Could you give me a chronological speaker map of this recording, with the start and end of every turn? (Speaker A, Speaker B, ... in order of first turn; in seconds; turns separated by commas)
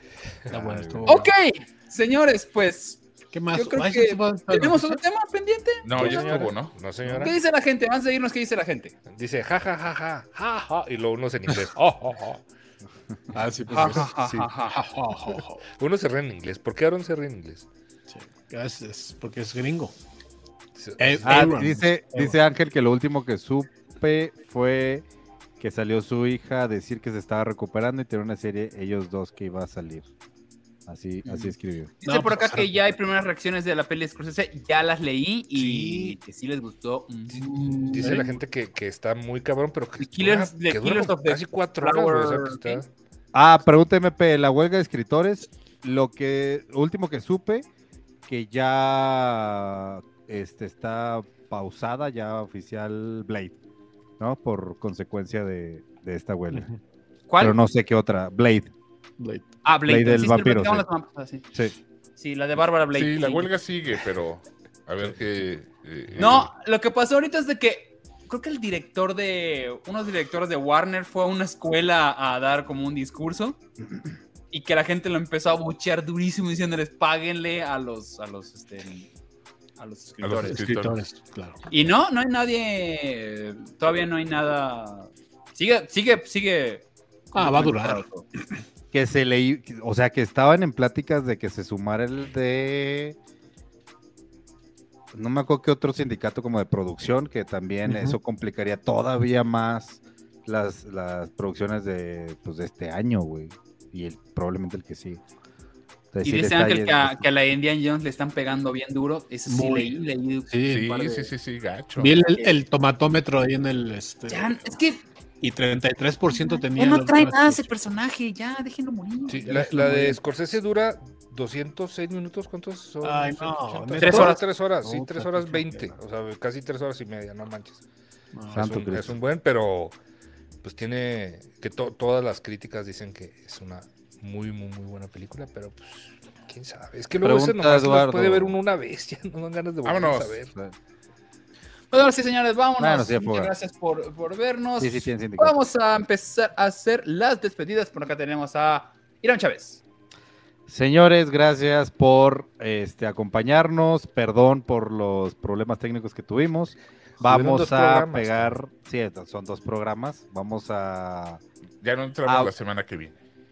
Speaker A: 0.5-1.3, Speaker B: 0.5-1.2, Speaker C: 1.1-3.0, Speaker A: 3.3-5.0, Speaker C: 3.5-6.4, Speaker D: 5.8-6.8, Speaker E: 6.0-7.3, Speaker C: 7.2-8.9, Speaker E: 9.1-12.4, Speaker A: 13.3-14.2, Speaker C: 13.7-14.8, Speaker E: 13.7-14.5, Speaker A: 14.7-15.6, Speaker E: 15.7-17.7, Speaker A: 18.1-19.9, Speaker E: 20.8-21.5, Speaker A: 21.0-22.4, Speaker B: 21.2-25.1, Speaker B: 25.6-30.1, Speaker B: 30.9-31.9, Speaker A: 31.2-32.8, Speaker C: 32.0-37.5, Speaker A: 35.6-36.2, Speaker A: 37.4-38.4, Speaker E: 37.9-42.9, Speaker C: 40.0-42.8, Speaker B: 43.3-47.7, Speaker B: 48.3-53.6, Speaker B: 54.2-56.7, Speaker A: 56.5-56.8, Speaker C: 57.3-57.6, Speaker B: 57.4-58.7, Speaker A: 59.2-59.5, Speaker C: 59.6-61.4, Speaker B: 59.9-60.9, Speaker C: 62.2-63.5, Speaker D: 62.9-66.5, Speaker C: 66.2-73.6, Speaker C: 74.5-79.1, Speaker C: 79.8-80.7, Speaker D: 80.2-81.0, Speaker A: 80.4-81.6, Speaker C: 81.7-88.3, Speaker A: 87.3-88.0, Speaker B: 88.9-93.2, Speaker B: 95.1-105.2, Speaker A: 97.9-98.2, Speaker B: 106.1-107.3, Speaker C: 106.2-110.5, Speaker A: 109.5-110.0, Speaker A: 110.5-111.3, Speaker D: 110.7-112.2, Speaker A: 112.0-114.6, Speaker C: 114.3-115.0, Speaker A: 115.4-117.7, Speaker C: 116.3-119.6, Speaker E: 119.3-127.8, Speaker A: 119.4-120.2, Speaker A: 123.0-126.0, Speaker C: 124.0-124.4, Speaker A: 128.3-128.7, Speaker B: 128.5-129.2, Speaker E: 128.6-129.9, Speaker E: 130.6-140.5, Speaker B: 137.2-138.6, Speaker D: 139.8-140.4, Speaker C: 141.9-149.8, Speaker B: 142.8-143.5, Speaker B: 144.8-145.6, Speaker B: 150.7-161.4, Speaker E: 157.2-158.6, Speaker D: 161.8-163.2, Speaker B: 162.2-162.5